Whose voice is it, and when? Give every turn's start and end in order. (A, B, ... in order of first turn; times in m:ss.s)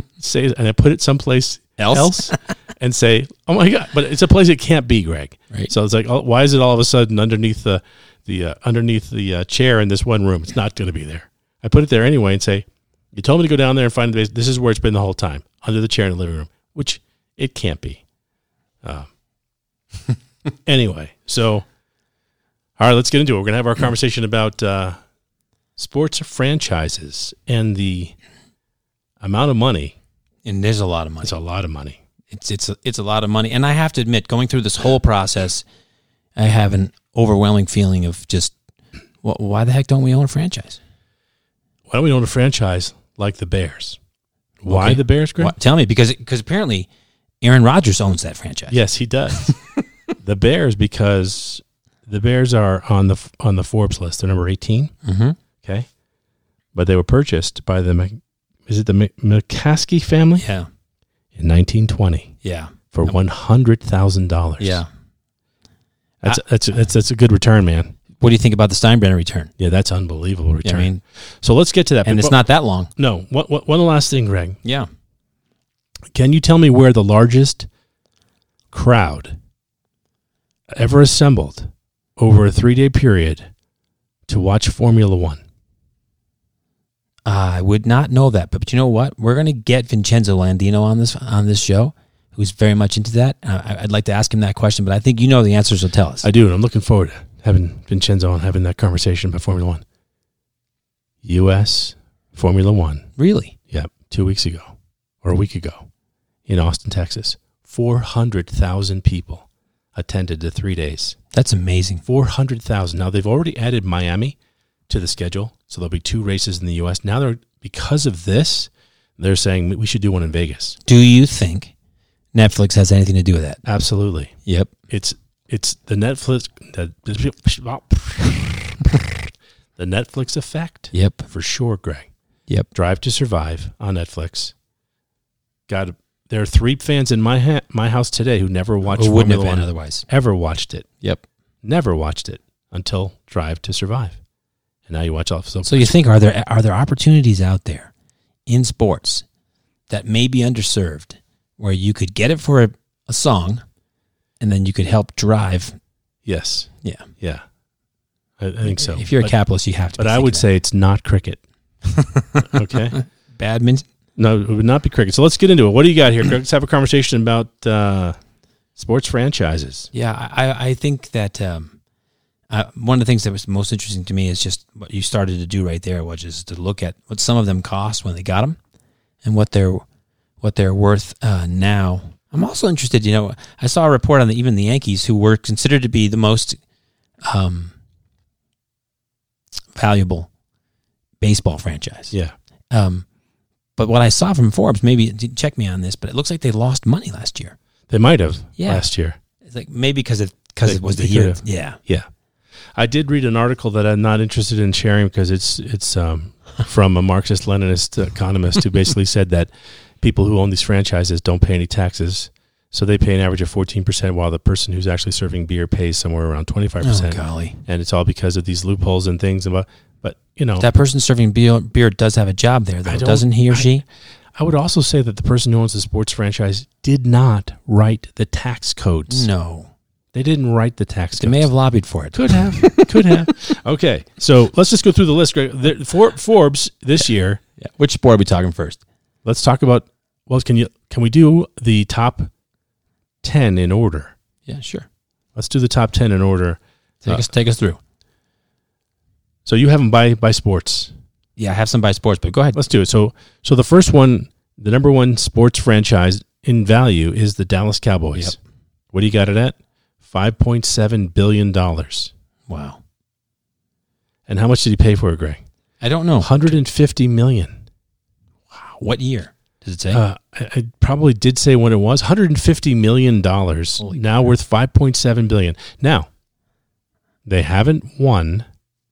0:00.2-0:18.0 A
0:01.8-0:02.4 B
0:18.8-0:19.1 A
0:20.6-0:21.7 A
0:22.8-0:24.9 A
0:25.8-0:28.2 A
0:29.2-0:30.0 A
0:30.4-0:31.3 B
0:31.2-0:32.0 A
0:32.3-0:35.6 B
0:36.4-0:38.5 B
0:39.2-0:40.8 B
0:41.9-0:44.0 A
0:44.6-0:45.5 A
0:44.7-0:46.9 B
0:47.4-0:48.8 B
0:48.7-0:49.5 A
0:49.3-0:49.6 B
0:50.2-0:54.9 A
0:55.0-0:55.4 B
0:56.7-1:00.4 A
1:00.4-1:00.7 B
1:01.4-1:02.3 A
1:02.4-1:03.1 B
1:02.9-1:04.8 A
1:04.6-1:04.9 B
1:06.2-1:07.9 A
1:08.2-1:09.5 B
1:09.6-1:10.9 A
1:10.6-1:11.0 B
1:11.4-1:12.4 A
1:12.0-1:12.9 B
1:13.0-1:14.6 A
1:16.1-1:17.7 A
1:18.7-1:19.4 A
1:20.7-1:23.5 A
1:24.3-1:25.4 A
1:27.2-1:36.3 B
1:36.2-1:39.8 A
1:41.2-1:43.1 A
1:43.2-1:43.5 B
1:43.7-1:45.9 A
1:46.5-1:51.2 A
1:51.3-1:52.0 B
1:52.0-1:54.4 A
1:54.9-2:00.8 A
2:00.8-2:01.7 B
2:02.3-2:03.6 B
2:03.6-2:04.3 A
2:04.4-2:04.7 B
2:04.9-2:12.1 A
2:10.9-2:11.2 B
2:12.7-2:14.5 A
2:15.7-2:20.9 A
2:18.9-2:20.0 B
2:21.6-2:24.2 A
2:24.9-2:25.9 A
2:25.6-2:27.9 B
2:28.5-2:29.2 B
2:29.9-2:33.6 B
2:34.4-2:35.7 B
2:36.2-2:37.4 A
2:36.8-2:37.1 B
2:38.4-2:39.3 A
2:38.7-2:40.4 B
2:40.0-2:41.4 A
2:41.8-2:43.8 B
2:42.4-2:43.0 A
2:44.2-2:48.2 A
2:48.8-2:49.9 A
2:49.9-2:51.7 B
2:52.5-2:58.6 B
2:59.2-2:59.8 B
3:00.4-3:06.6 B
3:07.2-3:07.7 B
3:09.8-3:10.3 B
3:11.2-3:12.1 B
3:12.7-3:13.0 B
3:13.8-3:17.6 B
3:17.9-3:19.2 A
3:18.6-3:18.9 B
3:19.4-3:21.8 B
3:20.6-3:22.0 A
3:22.7-3:40.6 A
3:36.8-3:37.6 B
3:40.6-3:43.8 B
3:42.8-3:43.7 A
3:44.4-3:49.3 A
3:49.1-3:49.7 B
3:50.1-3:51.5 A
3:51.2-3:53.3 B
3:52.1-3:57.4 A
3:57.6-3:58.8 B
3:59.2-4:02.3 A
4:03.2-4:04.1 A
4:04.5-4:04.9 B
4:05.3-4:07.2 A
4:07.0-4:07.8 B
4:09.4-4:10.9 A
4:11.4-4:12.6 B
4:12.5-4:18.4 A
4:18.9-4:22.1 A
4:22.5-4:22.8 B
4:24.3-4:25.4 A
4:25.8-4:26.5 B
4:26.2-4:27.6 A
4:28.5-4:30.0 B
4:29.9-4:36.1 A
4:37.2-4:38.4 A